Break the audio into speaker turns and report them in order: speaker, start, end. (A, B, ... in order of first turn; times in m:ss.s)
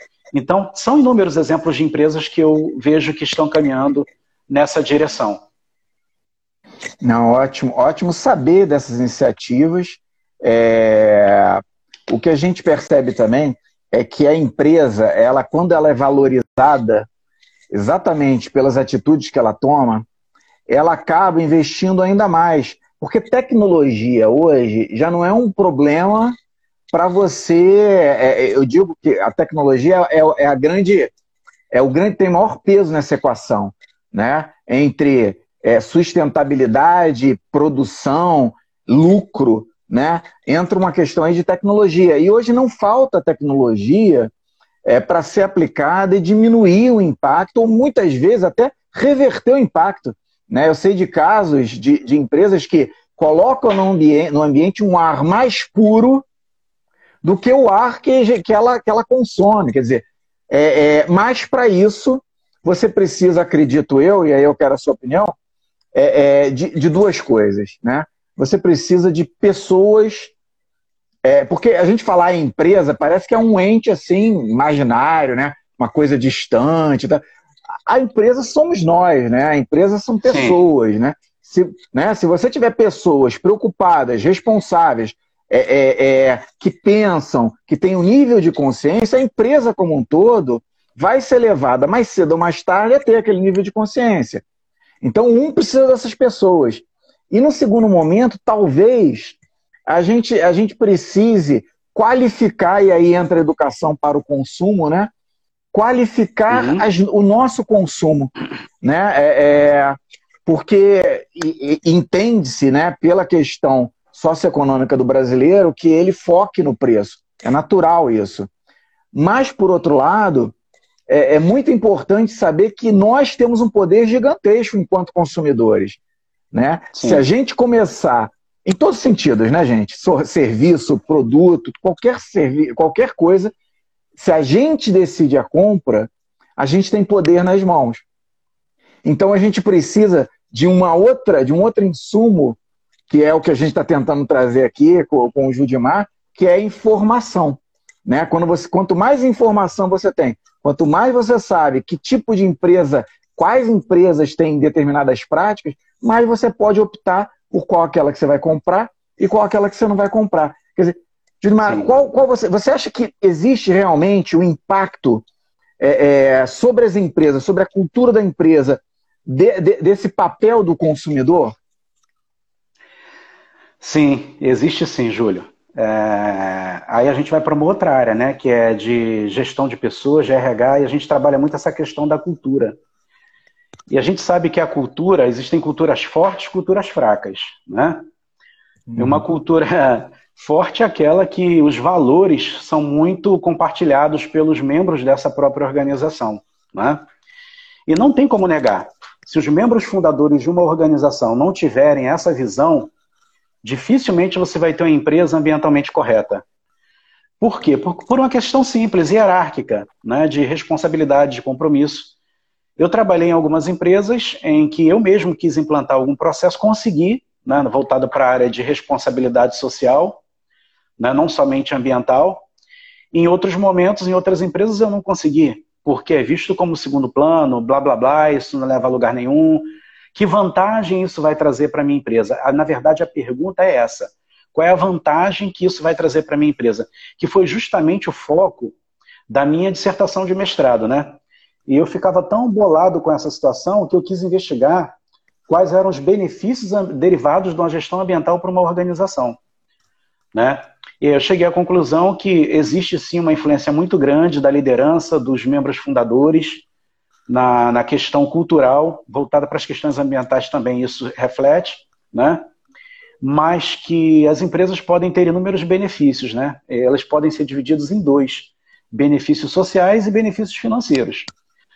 0:00.3-0:05.4 A
0:07.0-0:17.1 B
0:17.7-0:20.1 B
0:20.7-0:26.4 B
0:26.9-0:31.1 B
0:31.7-0:44.3 B
0:44.9-0:56.2 B
0:57.2-1:05.4 B
1:06.0-1:10.3 B
1:11.2-1:17.2 B
1:17.9-1:34.4 B
1:20.2-1:20.6 A
1:35.0-1:45.1 B
1:45.7-1:58.5 B
1:46.5-1:46.8 A
1:59.1-2:00.6 B
2:01.1-2:06.0 B
2:06.5-2:13.5 B
2:06.9-2:07.2 A
2:14.2-2:18.0 B
2:19.0-2:22.6 B
2:23.1-2:45.2 B
2:41.6-2:41.9 A
2:45.8-2:51.6 B
2:53.8-3:02.8 A
3:03.9-3:08.1 A
3:08.9-3:09.2 B
3:09.0-3:17.0 A
3:17.9-3:22.9 A
3:23.6-3:26.4 A
3:27.4-3:32.1 A
3:32.8-3:40.2 A
3:41.0-3:42.4 A
3:43.1-3:58.7 A
3:59.3-4:05.0 A
4:05.5-4:09.4 A
4:10.3-4:16.6 A
4:17.3-4:22.4 A
4:23.2-4:31.3 A